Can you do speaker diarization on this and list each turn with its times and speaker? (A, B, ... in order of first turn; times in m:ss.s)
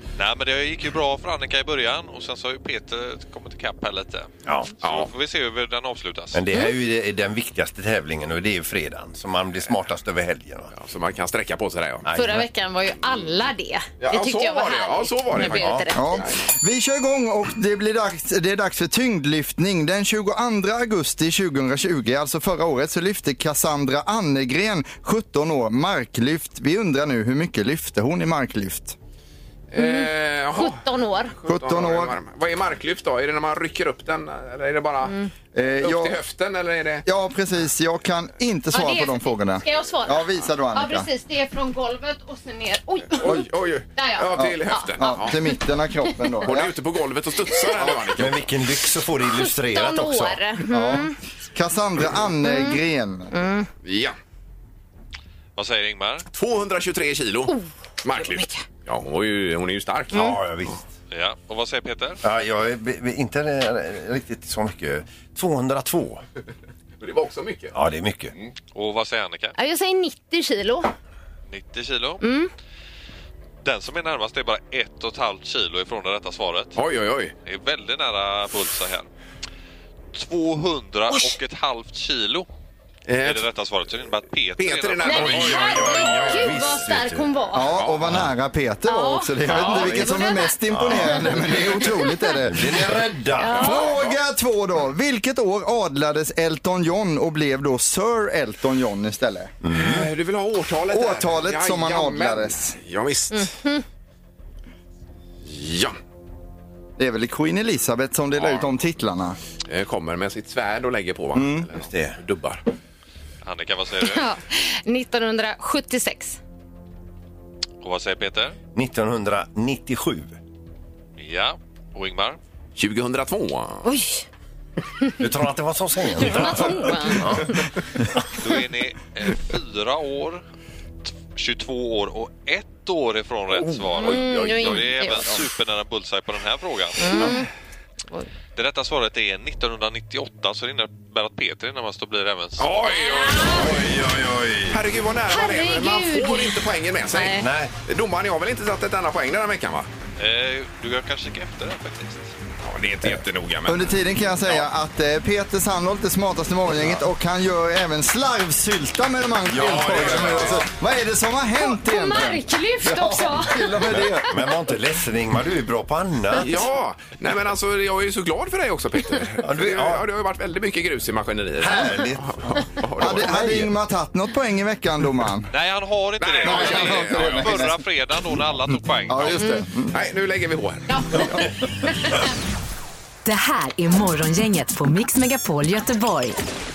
0:00.2-0:04.3 A
0:04.8-0:06.4 A
0:04.8-0:05.1 B
0:06.3-0:10.7 C
0:10.7-0:12.0 B
0:12.0-0:12.5 C
0:12.1-0:16.1 D
0:14.0-0:16.4 B
0:15.4-0:15.9 C
0:15.9-0:28.9 E
0:29.7-0:30.8 B
0:29.8-0:31.3 D
0:31.4-0:35.1 B
0:31.5-0:32.1 E
0:35.0-0:35.3 D
0:35.5-0:36.2 E
0:35.8-0:37.0 B
0:37.0-0:41.1 E
0:38.7-0:43.4 D
0:43.1-0:45.4 B
0:44.0-0:45.2 D
0:44.4-0:46.7 E
0:46.4-0:48.4 B
0:47.9-0:50.4 C
0:49.3-0:51.2 D
0:50.7-0:53.3 E
0:52.4-0:52.8 D
0:53.3-0:53.7 D
0:53.8-0:54.1 B
0:55.6-0:56.2 A
0:56.3-1:00.3 B
0:58.2-0:58.6 D
1:00.1-1:00.9 C
1:01.1-1:02.2 A
1:02.2-1:06.2 C
1:07.0-1:07.7 B
1:07.7-1:08.3 C
1:08.7-1:09.5 A
1:09.6-1:10.9 D
1:11.5-1:12.2 A
1:12.2-1:12.5 D
1:13.6-1:16.8 A
1:16.8-1:17.3 B
1:17.4-1:19.1 A
1:20.1-1:22.5 A
1:23.1-1:23.4 B
1:23.2-1:25.5 A
1:24.6-1:26.6 B
1:25.0-1:27.7 D
1:25.1-1:27.3 C
1:27.5-1:32.7 E
1:27.7-1:28.2 B
1:28.9-1:32.3 D
1:30.7-1:31.5 C
1:32.5-1:33.8 C
1:33.4-1:33.9 D
1:33.6-1:39.5 E
1:33.6-1:34.2 B
1:39.6-1:40.1 C
1:39.7-1:43.6 B
1:40.9-1:42.8 E
1:43.3-1:43.8 D
1:45.4-1:46.0 B
1:47.0-1:49.4 E
1:49.7-1:52.6 B
1:51.3-1:51.6 E
1:51.8-1:52.2 C
1:53.4-1:54.3 A
1:54.0-1:56.4 D
1:57.8-1:58.6 A
1:58.7-2:00.4 C
2:01.2-2:02.4 A
2:02.8-2:03.8 B
2:03.8-2:04.2 D
2:05.2-2:07.5 C
2:06.2-2:07.6 D
2:08.4-2:10.4 A
2:11.0-2:17.4 A
2:13.9-2:15.4 D
2:17.0-2:17.5 D
2:18.5-2:22.7 A
2:22.6-2:23.8 B
2:22.8-2:23.8 D
2:23.5-2:24.8 C
2:24.7-2:29.9 B
2:25.3-2:27.4 D
2:27.4-2:27.7 C
2:30.2-2:32.3 A
2:32.6-2:34.6 B
2:33.7-2:44.4 E
2:39.5-2:40.7 C
2:39.6-2:40.6 B
2:41.6-2:43.8 D
2:43.9-2:46.7 C
2:46.4-2:53.4 B
2:49.4-2:50.0 C
2:51.6-2:53.7 C
2:53.0-2:55.5 E
2:55.5-2:59.6 A
2:56.2-2:57.6 B
2:56.4-2:57.8 E
2:59.1-3:00.0 E
2:59.3-2:59.6 D
2:59.9-3:01.4 B
3:00.9-3:02.1 D
3:03.2-3:06.4 F